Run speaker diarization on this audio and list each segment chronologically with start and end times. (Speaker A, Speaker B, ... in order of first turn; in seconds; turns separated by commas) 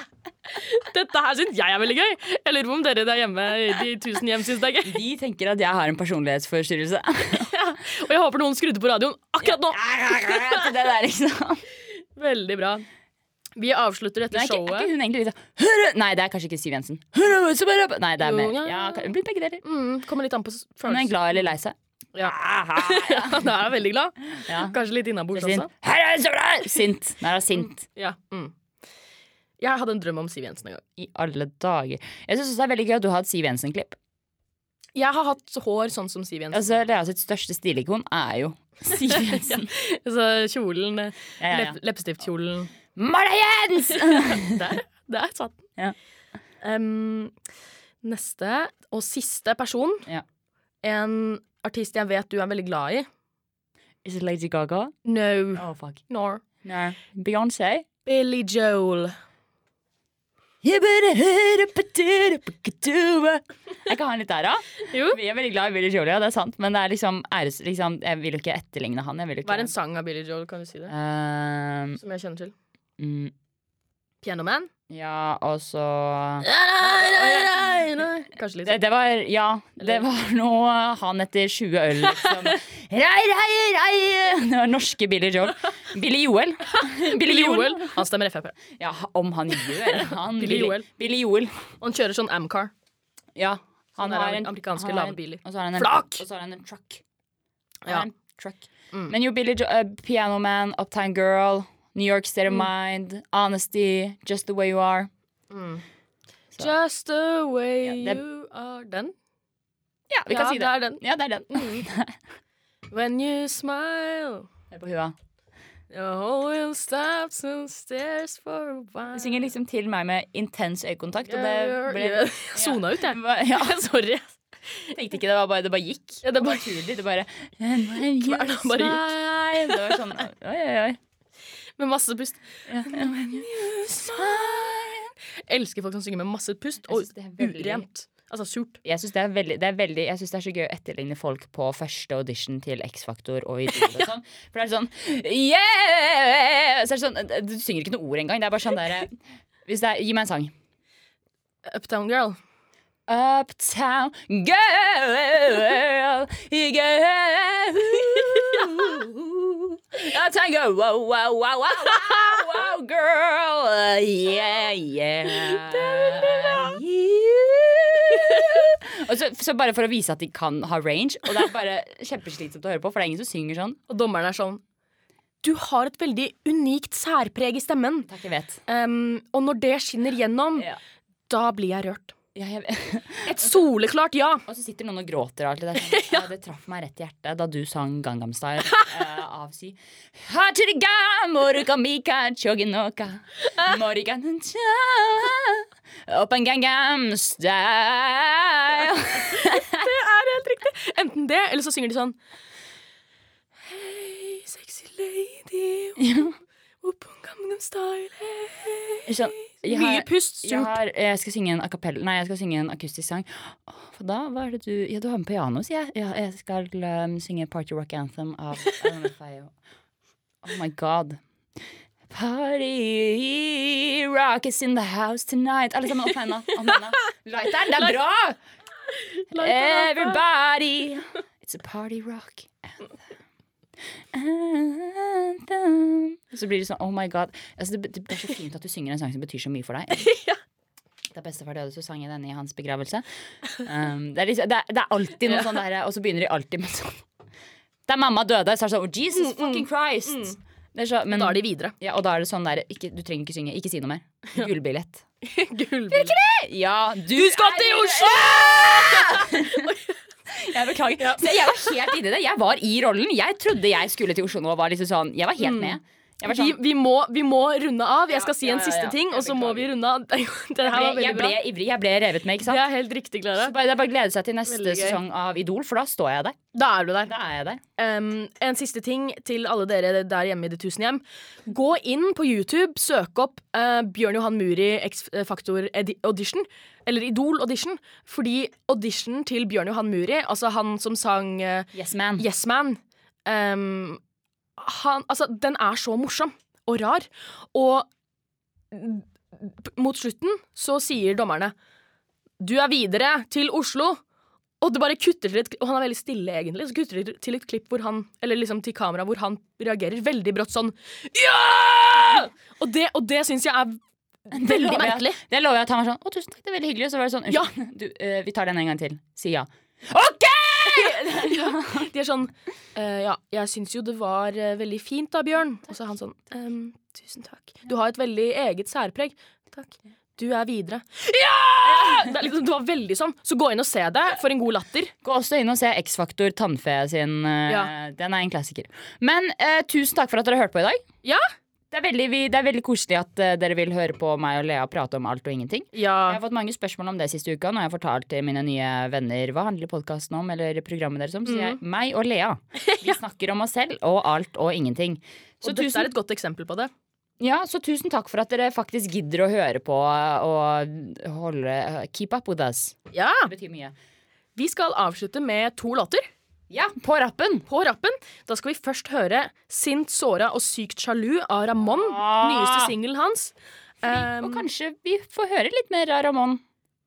Speaker A: 0.5-5.0, Speaker B: 4.8-7.5, Speaker A: 7.2-10.7, Speaker B: 9.4-11.7, Speaker A: 11.9-12.9, Speaker A: 13.6-14.9, Speaker B: 14.3-19.6, Speaker A: 18.2-19.1, Speaker A: 19.6-21.1, Speaker B: 20.9-23.5, Speaker A: 22.1-25.7, Speaker B: 24.4-24.8, Speaker B: 25.3-27.8, Speaker A: 27.8-28.6, Speaker A: 29.6-30.9, Speaker B: 31.0-34.0, Speaker A: 35.0-36.7, Speaker B: 36.5-39.7, Speaker A: 39.1-42.7, Speaker B: 41.4-41.8, Speaker B: 42.9-44.7, Speaker A: 43.9-45.7, Speaker A: 46.6-47.4, Speaker A: 48.0-50.1, Speaker A: 50.8-53.1, Speaker B: 54.0-54.9, Speaker A: 55.0-56.4, Speaker B: 55.6-56.0, Speaker B: 56.6-57.9, Speaker A: 58.0-59.1, Speaker B: 60.6-69.7, Speaker A: 64.8-65.2, Speaker A: 69.5-70.9, Speaker B: 70.9-72.0, Speaker A: 72.0-72.5, Speaker B: 73.0-73.3, Speaker A: 74.2-74.7, Speaker B: 74.9-77.8, Speaker A: 76.4-78.8, Speaker B: 78.7-88.0, Speaker A: 82.1-82.6, Speaker A: 86.8-88.6, Speaker B: 88.7-91.7, Speaker A: 89.8-90.9, Speaker A: 91.8-92.7, Speaker B: 93.3-97.0, Speaker A: 94.0-96.2, Speaker B: 97.9-105.1, Speaker A: 105.5-105.8, Speaker A: 106.6-109.1, Speaker B: 107.8-108.2, Speaker B: 110.1-112.2, Speaker A: 110.3-111.8, Speaker A: 112.9-114.5, Speaker B: 114.7-115.2, Speaker A: 115.9-119.4, Speaker B: 119.1-123.8, Speaker A: 121.2-125.0, Speaker B: 124.9-131.0, Speaker A: 126.2-126.7, Speaker A: 128.2-129.0, Speaker A: 131.8-134.9, Speaker B: 132.7-135.1, Speaker A: 135.5-138.8, Speaker B: 136.9-137.8, Speaker B: 138.8-150.5, Speaker A: 151.7-152.4, Speaker B: 153.1-173.8, Speaker A: 158.5-158.8, Speaker A: 165.3-166.8, Speaker A: 168.2-168.6, Speaker A: 173.9-174.6, Speaker A: 175.4-178.1, Speaker B: 178.1-178.6, Speaker A: 178.7-180.7, Speaker A: 181.3-182.1, Speaker B: 182.3-183.6, Speaker A: 183.3-184.4, Speaker B: 184.5-199.8, Speaker A: 199.2-202.2, Speaker A: 203.6-206.3, Speaker B: 206.0-206.3, Speaker A: 206.8-210.8, Speaker B: 209.1-219.5, Speaker B: 220.4-221.2, Speaker B: 222.1-228.4, Speaker A: 228.9-230.2, Speaker B: 229.3-232.9, Speaker B: 234.1-240.1, Speaker A: 240.0-240.4, Speaker B: 241.1-247.0, Speaker B: 247.9-255.1, Speaker A: 249.1-250.4, Speaker A: 251.1-251.7, Speaker A: 255.2-256.1, Speaker B: 255.9-259.7, Speaker A: 257.1-260.0, Speaker B: 260.3-266.6, Speaker A: 261.0-261.2, Speaker A: 265.4-271.4, Speaker B: 268.1-269.7, Speaker B: 270.6-272.6, Speaker A: 272.4-273.5, Speaker B: 273.4-276.4, Speaker A: 274.5-275.0, Speaker A: 276.5-277.1, Speaker B: 277.1-277.6, Speaker A: 277.8-294.0, Speaker B: 291.7-292.3, Speaker A: 294.6-297.9, Speaker A: 298.7-301.5, Speaker A: 302.4-304.0, Speaker A: 304.6-315.2, Speaker B: 314.3-321.9, Speaker A: 320.6-334.9, Speaker B: 331.6-332.1, Speaker B: 335.0-340.8, Speaker A: 337.5-337.7, Speaker B: 341.7-355.9, Speaker A: 345.7-346.2, Speaker A: 351.3-351.6, Speaker A: 352.6-353.0, Speaker A: 355.4-356.7, Speaker B: 357.2-363.7, Speaker A: 362.9-363.3, Speaker A: 364.4-366.1, Speaker B: 366.5-367.5, Speaker A: 367.5-374.4, Speaker B: 371.6-372.7, Speaker B: 373.8-376.4